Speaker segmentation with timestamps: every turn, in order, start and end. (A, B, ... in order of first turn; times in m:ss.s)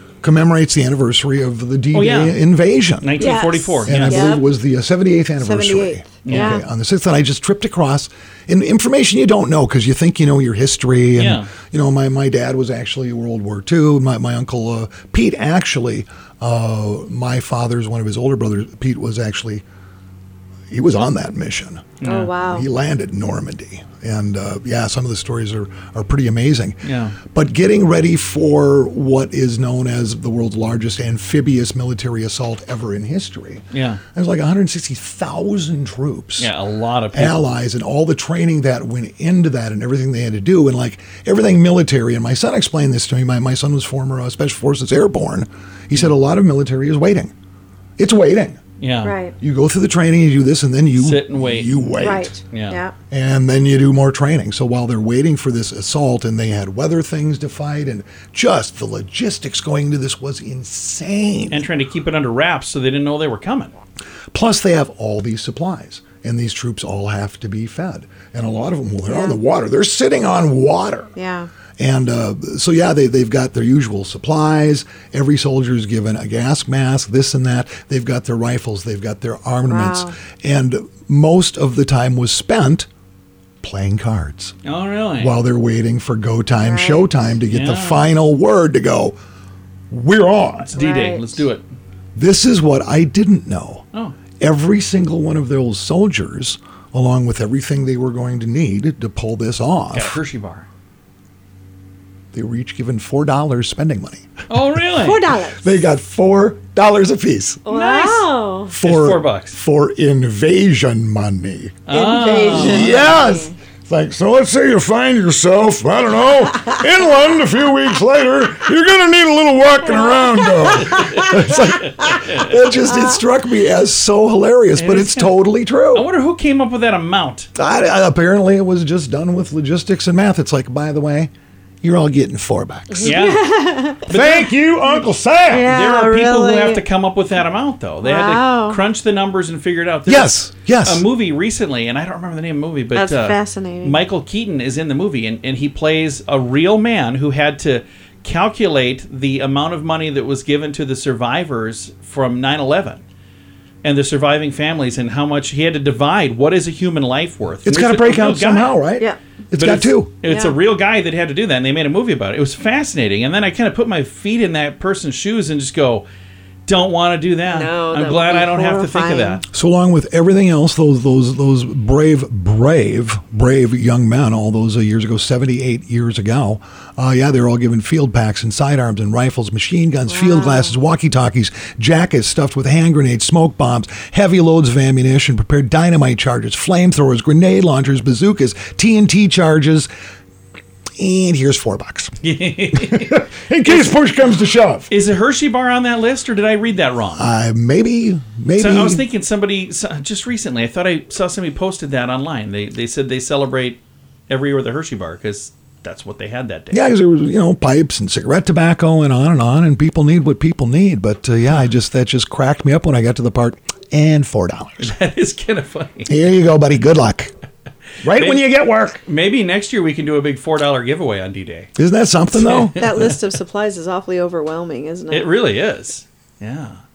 0:00.2-0:03.2 A
0:01.9-0:02.4 B
0:03.0-0:04.4 B
0:03.2-0:04.5 C
0:03.8-0:19.6 A
0:05.4-0:06.6 C
0:06.2-0:06.6 B
0:11.2-0:11.5 B
0:20.7-0:36.5 A
0:22.0-0:22.4 B
0:22.0-0:22.6 C
0:26.8-0:27.2 B
0:33.7-0:34.0 B
0:36.4-0:37.5 B
0:37.1-0:47.3 A
0:48.0-0:48.6 A
0:48.8-0:49.2 B
0:49.0-0:49.4 C
0:49.4-0:52.4 A
0:51.0-0:52.8 B
0:52.0-0:53.0 C
0:53.1-1:01.7 A
1:01.5-1:03.7 B
1:04.3-1:11.1 A
1:09.1-1:09.4 C
1:11.2-1:11.5 C
1:11.8-1:22.9 A
1:19.7-1:20.1 C
1:23.6-1:24.6 A
1:24.6-1:25.4 B
1:25.2-1:29.2 A
1:26.5-1:27.1 C
1:27.5-1:28.1 B
1:29.9-1:30.8 A
1:30.8-1:31.5 C
1:30.8-1:31.6 B
1:32.2-1:33.8 A
1:34.4-1:40.2 A
1:39.9-1:40.7 B
1:42.3-1:44.3 A
1:44.5-1:45.2 B
1:45.0-1:45.9 C
1:45.5-1:47.7 A
1:47.7-1:48.7 C
1:47.7-1:49.6 B
1:48.7-1:51.8 A
1:51.9-1:53.0 B
1:51.9-1:53.6 C
1:52.4-2:06.1 A
1:59.9-2:00.5 C
2:00.7-2:02.7 B
2:04.8-2:05.4 B
2:05.9-2:07.5 B
2:07.6-2:11.3 A
2:11.8-2:13.2 A
2:12.9-2:14.1 C
2:13.0-2:13.4 B
2:14.1-2:14.7 B
2:14.1-2:15.7 A
2:15.5-2:16.9 C
2:15.6-2:33.0 B
2:18.0-2:18.8 C
2:20.1-2:21.0 A
2:22.9-2:24.0 C
2:33.8-2:38.9 B
2:37.6-2:40.2 A
2:39.6-2:46.1 B
2:40.2-2:40.6 C
2:46.7-2:49.4 B
2:47.4-2:49.4 C
2:49.5-3:09.9 A
3:00.1-3:00.7 C
3:11.0-3:12.2 A
3:12.2-3:13.9 B
3:12.8-3:14.9 A
3:14.9-3:17.2 B
3:17.2-3:19.0 A
3:18.6-3:26.8 B
3:26.7-3:34.9 A
3:34.8-3:36.1 B
3:36.1-3:37.3 A
3:38.0-3:39.0 A
3:38.1-3:38.4 B
3:39.0-3:41.7 B
3:41.8-3:42.8 A
3:42.3-3:43.2 B
3:42.8-3:45.3 C
3:45.1-3:46.8 B